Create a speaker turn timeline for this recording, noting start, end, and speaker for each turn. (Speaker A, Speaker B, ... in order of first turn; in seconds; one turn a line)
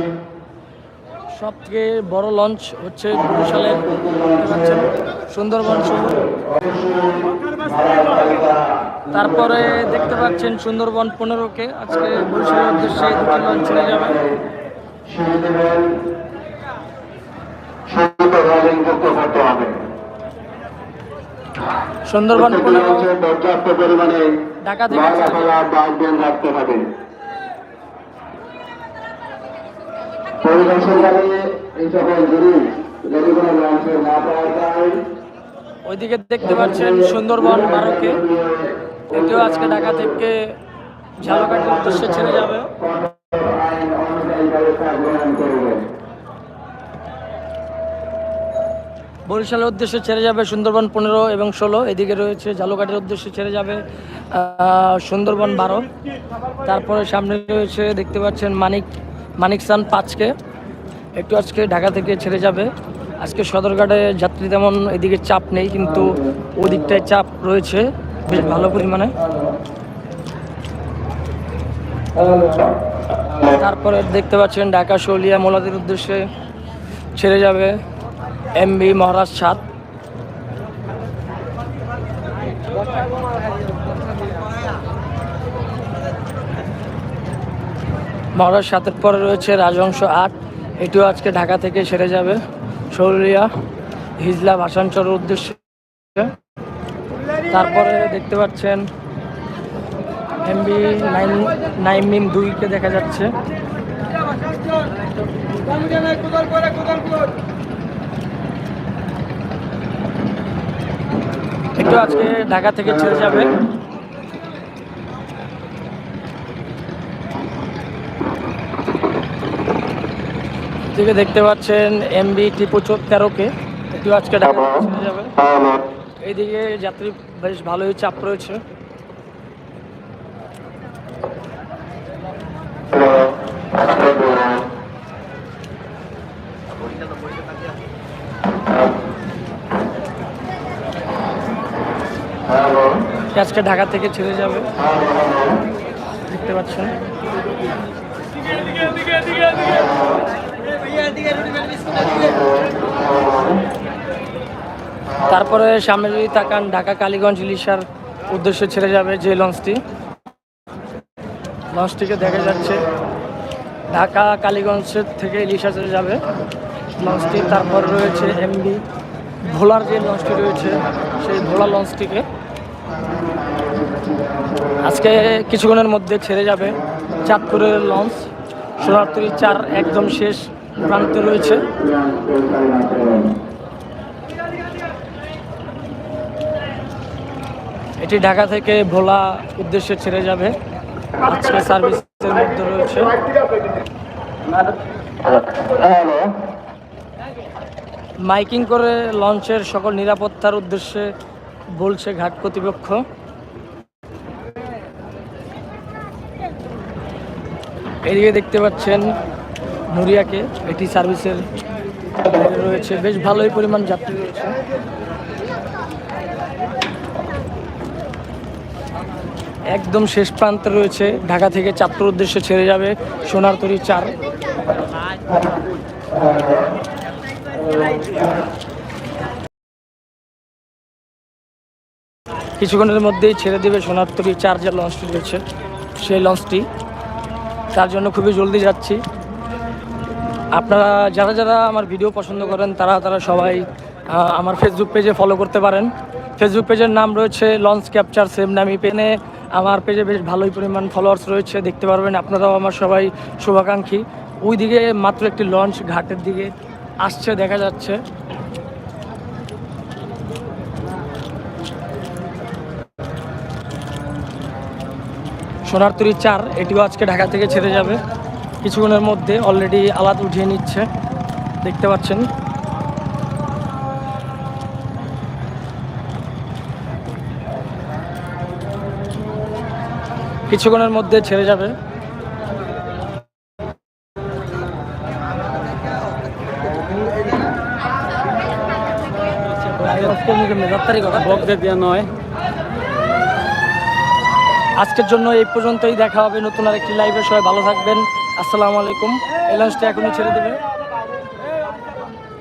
Speaker A: 1.3-6.3
Speaker B: 6.6-8.5
Speaker A: 9.1-14.3
Speaker B: 15.1-16.1
Speaker B: 17.9-19.8
Speaker A: 22.1-23.1
Speaker B: 22.9-24.5
Speaker A: 24.6-25.6
Speaker B: 25.4-27.0
Speaker B: 30.4-35.1
Speaker A: 35.8-38.3
Speaker B: 38.2-39.0
Speaker A: 39.1-40.5
Speaker A: 41.2-42.7
Speaker B: 42.8-45.9
Speaker A: 49.2-55.9
Speaker A: 56.6-58.9
Speaker A: 59.4-60.3
Speaker A: 61.2-69.2
Speaker A: 73.4-76.3
Speaker A: 77.2-77.8
Speaker A: 78.5-79.6
Speaker A: 88.3-92.4
Speaker A: 92.9-93.5
Speaker A: 94.2-96.3
Speaker A: 97.5-98.8
Speaker A: 100.4-103.3
Speaker A: 111.8-113.6
Speaker A: 120.9-125.4
Speaker A: 126.2-128.6
Speaker B: 142.6-142.9
Speaker A: 143.2-144.7
Speaker A: 146.2-147.0
Speaker A: 155.2-159.8
Speaker A: 161.7-162.8
Speaker A: 163.9-166.2
Speaker A: 166.9-168.8
Speaker A: 169.4-172.2
Speaker A: 174.8-181.7
Speaker B: 181.7-183.3
Speaker A: 188.0-190.6
Speaker A: 191.2-193.2
Speaker B: 195.4-196.3
Speaker A: 198.2-201.1
Speaker A: 201.7-203.0
Speaker A: 208.0-209.1
Speaker A: 209.9-211.4
Speaker A: 212.2-214.6
Speaker A: 219.7-224.2
Speaker A: 232.6-235.4
Speaker A: 235.9-236.7
Speaker A: 237.7-239.0
Speaker A: 240.5-258.0
Speaker A: 265.6-268.0
Speaker A: 268.6-270.9
Speaker A: 271.6-272.3
Speaker A: 280.5-281.8
Speaker A: 289.5-292.1
Speaker A: 294.7-300.6